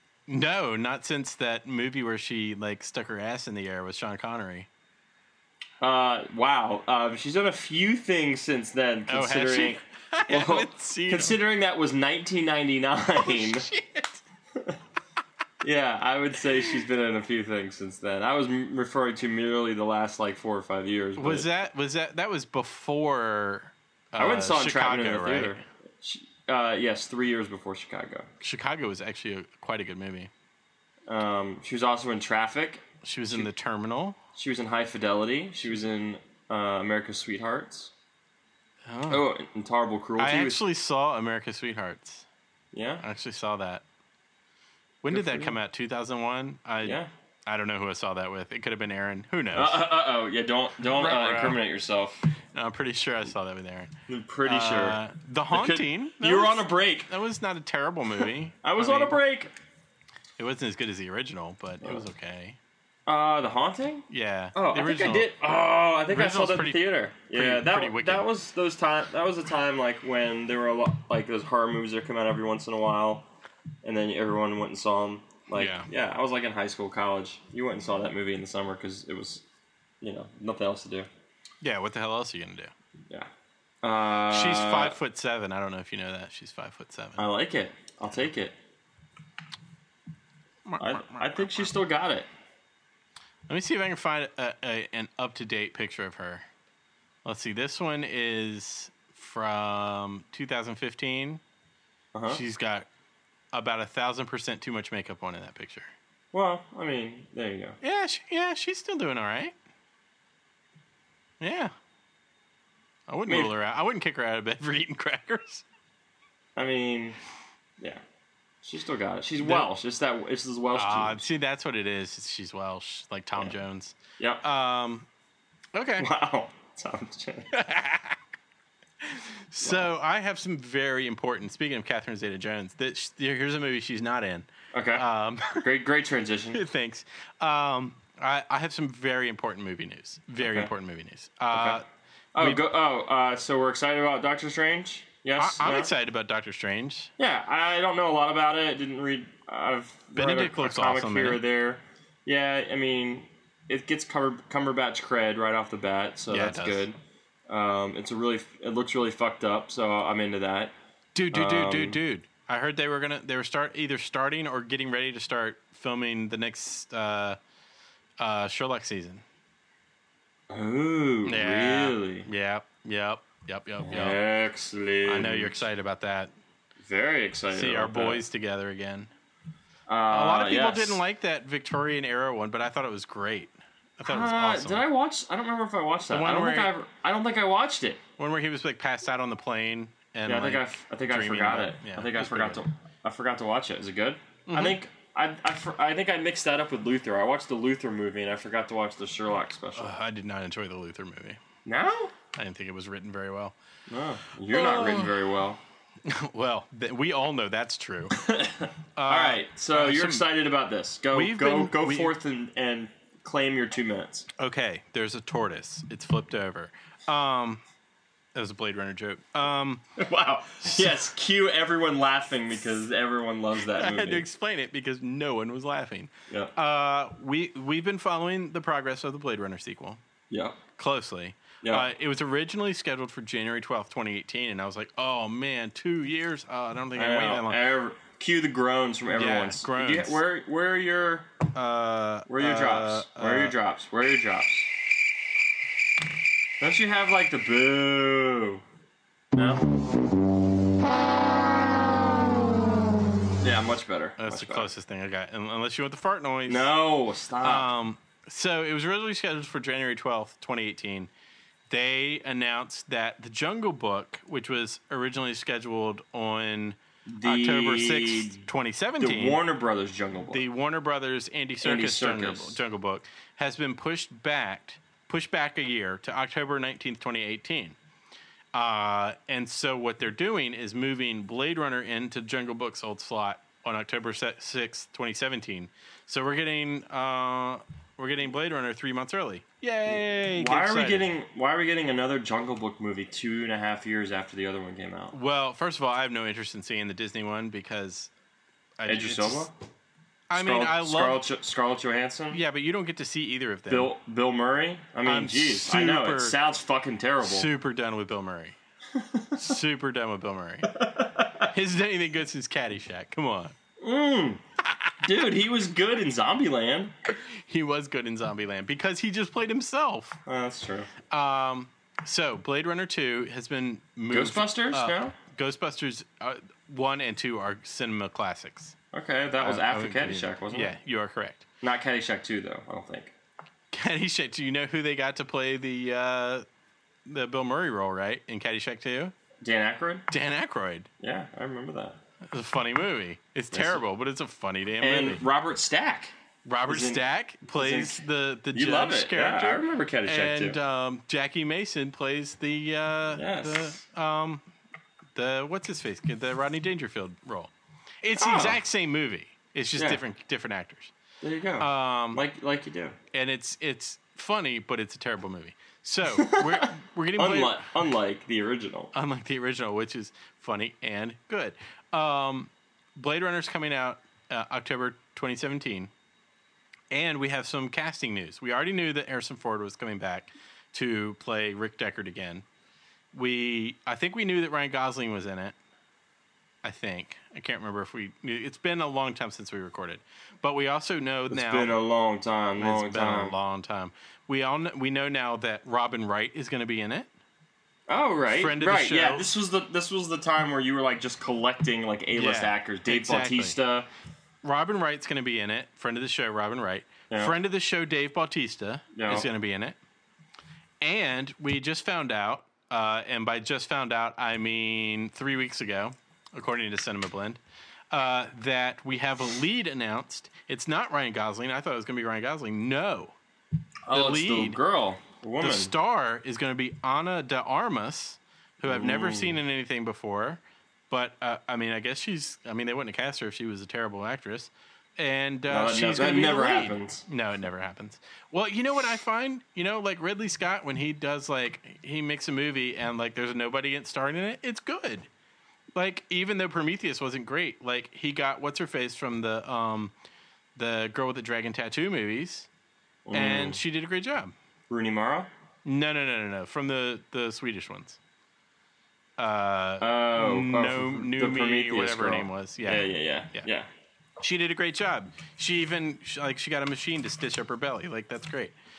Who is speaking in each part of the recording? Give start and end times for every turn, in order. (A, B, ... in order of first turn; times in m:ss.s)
0:00.3-0:04.7 A
0:05.8-0:13.6 B
0:09.1-0:11.4 A
0:13.2-0:14.2 A
0:15.6-0:21.5 B
0:21.2-0:25.6 A
0:24.2-0:28.3 B
0:28.4-0:30.3 A
0:31.0-0:33.5 B
0:33.0-0:34.2 A
0:34.4-0:37.9 B
0:38.9-0:39.3 A
0:39.1-0:40.6 B
0:40.2-0:42.2 A
0:42.7-0:43.0 B
0:43.0-0:43.8 A
0:45.0-0:49.9 A
0:45.1-0:45.6 B
0:46.8-0:47.1 B
0:49.5-0:52.2 B
0:50.9-0:51.6 A
0:52.5-0:53.9 A
0:54.1-0:55.0 B
0:54.4-0:59.2 A
0:55.5-0:57.1 B
0:58.6-0:59.5 B
1:00.4-1:02.6 A
1:03.0-1:13.2 B
1:04.1-1:05.3 A
1:06.1-1:08.3 A
1:13.8-1:19.4 B
1:15.5-1:15.9 A
1:20.0-1:21.1 B
1:21.6-1:22.7 A
1:23.8-1:25.0 B
1:24.3-1:27.3 A
1:27.2-1:28.5 B
1:30.6-1:31.7 A
1:30.8-1:32.3 B
1:33.5-1:36.4 A
1:37.2-1:41.4 A
1:42.1-1:42.4 B
1:42.3-1:42.9 A
1:43.5-1:45.9 A
1:46.3-1:47.8 B
1:47.8-1:49.5 A
1:51.4-1:51.7 A
1:53.1-1:55.6 A
1:53.3-1:53.5 B
1:56.6-1:57.2 B
1:58.6-2:01.2 B
1:59.4-1:59.7 A
2:00.7-2:05.0 A
2:04.2-2:04.4 B
2:05.7-2:06.1 A
2:06.0-2:07.5 B
2:07.5-2:08.2 A
2:09.0-2:15.6 A
2:09.6-2:09.9 B
2:14.7-2:16.6 B
2:16.5-2:21.8 A
2:20.4-2:20.7 B
2:21.5-2:21.8 B
2:22.3-2:25.9 B
2:25.4-2:27.1 A
2:27.2-2:37.0 B
2:30.1-2:31.4 A
2:36.3-2:36.8 A
2:37.5-2:40.7 B
2:41.1-2:47.4 A
2:41.3-2:42.0 B
2:48.2-2:49.2 A
2:50.5-2:52.3 B
2:51.2-2:54.2 A
2:53.8-2:55.6 B
2:55.0-2:56.3 A
2:56.8-2:58.2 B
2:57.5-2:59.1 A
2:59.9-3:01.0 B
3:00.1-3:04.8 A
3:04.0-3:08.0 B
3:06.1-3:06.7 A
3:08.2-3:12.6 A
3:10.2-3:19.9 B
3:14.5-3:14.8 A
3:19.8-3:21.4 A
3:21.6-3:22.1 B
3:22.3-3:23.5 A
3:23.9-3:25.6 B
3:24.5-3:25.1 A
3:26.0-3:28.2 A
3:28.2-3:34.3 B
3:29.0-3:30.3 A
3:31.1-3:32.1 A
3:34.4-3:37.6 A
3:38.3-3:39.8 A
3:40.0-3:44.2 B
3:40.6-3:40.9 A
3:43.7-3:50.0 A
3:50.3-3:50.6 B
3:50.8-3:57.6 A
3:51.6-3:51.9 B
3:56.9-4:01.3 B
3:59.1-4:00.2 A
4:01.5-4:03.5 A
4:02.3-4:04.7 B
4:06.6-4:08.6 B
4:09.3-4:09.7 B
4:13.4-4:14.7 B
4:14.2-4:16.7 A
4:16.5-4:17.7 B
4:17.4-4:21.1 A
4:21.7-4:29.4 A
4:27.1-4:28.4 B
4:29.0-4:30.4 B
4:30.3-4:37.8 A
4:31.6-4:32.6 B
4:38.5-4:51.1 A
4:50.3-4:55.1 B
4:55.1-4:58.1 A
4:58.8-4:59.5 A
4:58.8-4:59.5 B
5:00.3-5:01.2 A
5:00.3-5:02.4 B
5:02.3-5:03.9 A
5:03.7-5:07.5 B
5:05.0-5:06.4 A
5:07.2-5:08.6 A
5:08.9-5:09.5 B
5:09.3-5:10.8 A
5:10.7-5:11.5 B
5:11.4-5:13.5 A
5:13.8-5:14.4 B
5:15.0-5:16.9 B
5:17.2-5:20.2 A
5:20.2-5:20.9 B
5:21.1-5:28.7 A
5:24.1-5:25.1 B
5:28.9-5:30.7 B
5:29.4-5:31.4 A
5:31.6-5:33.1 B
5:33.7-5:36.4 A
5:37.0-5:39.1 A
5:39.4-5:40.1 B
5:40.1-5:40.9 A
5:41.0-5:42.0 B
5:42.3-5:45.2 A
5:43.5-5:43.8 B
5:44.8-5:46.1 B
5:46.4-5:54.4 A
5:46.7-5:50.6 B
5:53.1-5:53.8 B
5:55.1-6:00.9 A
5:58.2-5:58.6 B
5:59.8-6:00.0 B
6:01.2-6:03.0 B
6:01.6-6:02.2 A
6:03.1-6:07.6 A
6:06.1-6:08.9 B
6:08.9-6:15.9 A
6:16.9-6:22.4 A
6:23.1-6:25.5 A
6:26.6-6:31.7 A
6:31.3-6:33.3 B
6:32.6-6:37.1 A
6:37.9-6:43.9 B
6:38.3-6:39.3 A
6:42.1-6:43.6 A
6:44.4-6:49.8 A
6:47.1-6:47.3 B
6:48.9-6:49.3 B
6:50.8-6:57.4 A
6:57.9-7:03.1 A
7:03.8-7:05.7 B
7:03.9-7:04.6 A
7:05.4-7:25.1 A
7:08.6-7:09.4 B
7:15.5-7:17.0 B
7:25.7-7:29.9 A
7:30.6-7:32.5 A
7:33.0-7:33.6 B
7:33.1-7:34.3 A
7:34.7-7:35.3 B
7:35.6-7:38.0 A
7:39.2-7:43.5 A
7:39.8-7:43.7 B
7:44.2-7:48.5 A